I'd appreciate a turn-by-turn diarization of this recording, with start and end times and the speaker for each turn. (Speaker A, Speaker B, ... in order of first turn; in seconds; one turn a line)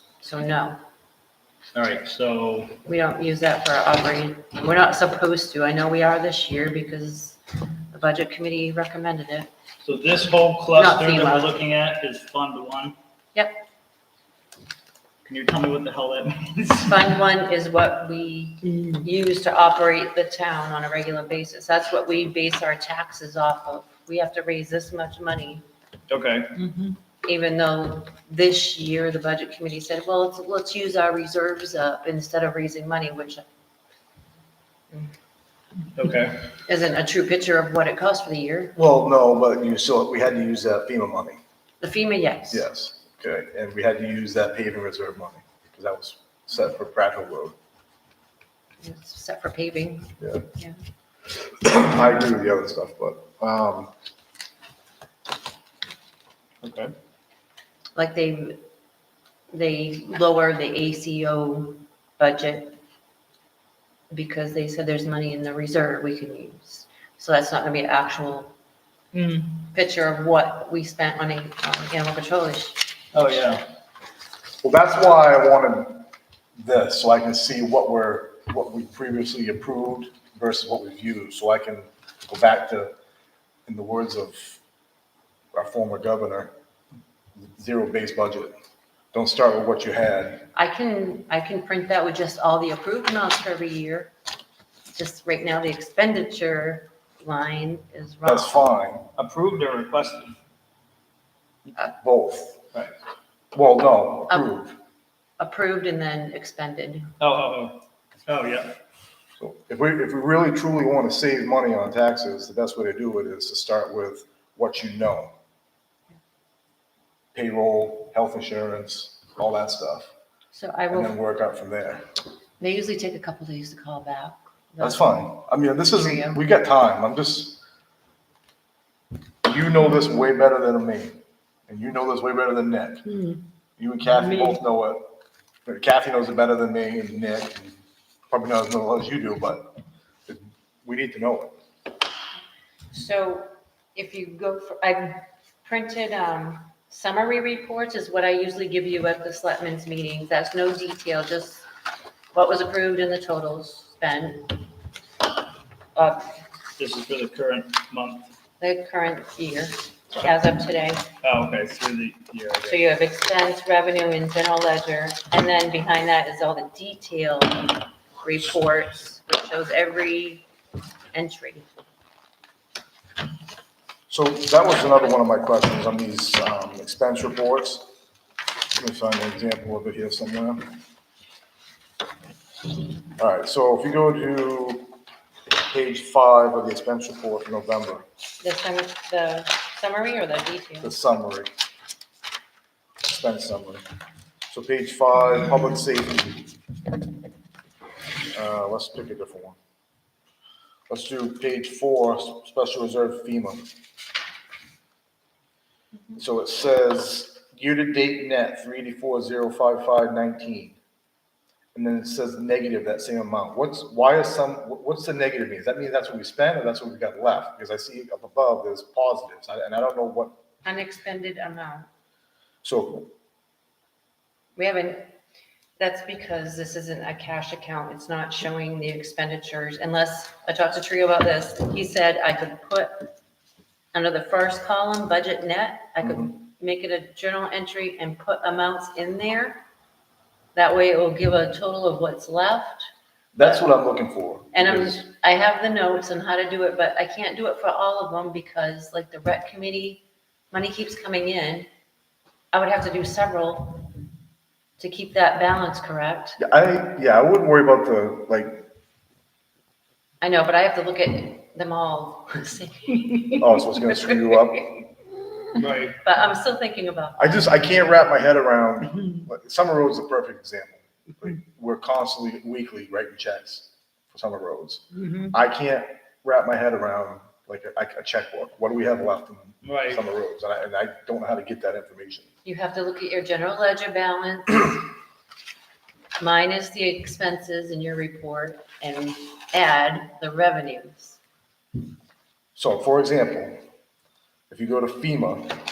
Speaker A: 0.2-0.8
Speaker B: 1.7-2.8
Speaker A: 2.9-9.5
Speaker B: 9.8-12.9
Speaker A: 10.7-11.5
Speaker A: 13.3-13.6
Speaker B: 15.2-17.1
Speaker A: 16.9-25.6
Speaker B: 26.1-26.9
Speaker A: 27.2-33.4
Speaker B: 35.9-36.5
Speaker A: 36.7-38.7
Speaker C: 38.8-41.4
Speaker A: 41.8-42.6
Speaker C: 42.5-47.5
Speaker A: 48.8-50.7
Speaker C: 50.2-50.5
Speaker C: 51.6-53.9
Speaker B: 56.6-56.9
Speaker A: 57.9-58.6
Speaker A: 59.5-62.8
Speaker A: 64.1-68.5
Speaker B: 69.1-69.6
Speaker A: 69.6-72.9
Speaker B: 73.1-73.6
Speaker C: 74.6-76.1
Speaker C: 76.6-82.9
Speaker C: 83.7-84.6
Speaker C: 85.5-86.5
Speaker C: 87.4-88.5
Speaker C: 89.1-90.5
Speaker A: 90.5-94.1
Speaker A: 94.9-98.7
Speaker C: 98.2-99.1
Speaker B: 99.2-100.3
Speaker C: 101.8-102.6
Speaker C: 103.5-104.8
Speaker A: 105.4-107.1
Speaker B: 107.2-108.7
Speaker C: 109.4-115.3
Speaker C: 117.3-120.1
Speaker A: 120.5-121.2
Speaker C: 120.9-122.0
Speaker A: 122.6-125.2
Speaker C: 124.8-127.6
Speaker A: 125.8-126.4
Speaker C: 129.4-131.2
Speaker C: 131.7-133.2
Speaker C: 133.8-137.7
Speaker C: 138.3-139.7
Speaker C: 140.3-141.5
Speaker A: 142.9-151.7
Speaker A: 152.3-154.6
Speaker A: 155.9-156.3
Speaker B: 156.8-158.3
Speaker A: 158.6-161.1
Speaker B: 161.2-162.8
Speaker A: 162.7-170.4
Speaker A: 171.1-171.7
Speaker C: 174.1-177.9
Speaker C: 178.8-180.7
Speaker C: 183.2-185.0
Speaker C: 185.6-188.0
Speaker A: 188.4-190.9
Speaker C: 190.8-191.5
Speaker C: 193.0-193.8
Speaker C: 194.5-196.4
Speaker C: 198.3-199.6
Speaker C: 200.9-203.7
Speaker C: 206.2-210.8
Speaker C: 211.7-220.3
Speaker A: 220.6-221.9
Speaker C: 222.6-223.1
Speaker A: 224.6-225.1
Speaker A: 225.8-233.1
Speaker A: 233.9-239.6
Speaker C: 236.0-236.3
Speaker A: 240.5-242.9
Speaker C: 243.3-245.0
Speaker A: 243.4-243.7
Speaker A: 244.5-251.7
Speaker A: 252.5-253.9
Speaker A: 254.8-256.4
Speaker C: 256.4-258.7
Speaker A: 260.2-263.5
Speaker C: 263.3-264.7
Speaker B: 265.5-266.0
Speaker A: 266.0-267.5
Speaker C: 267.2-282.3
Speaker B: 279.6-280.0
Speaker A: 282.4-284.9
Speaker A: 286.2-291.2
Speaker C: 292.6-293.6
Speaker C: 294.5-295.6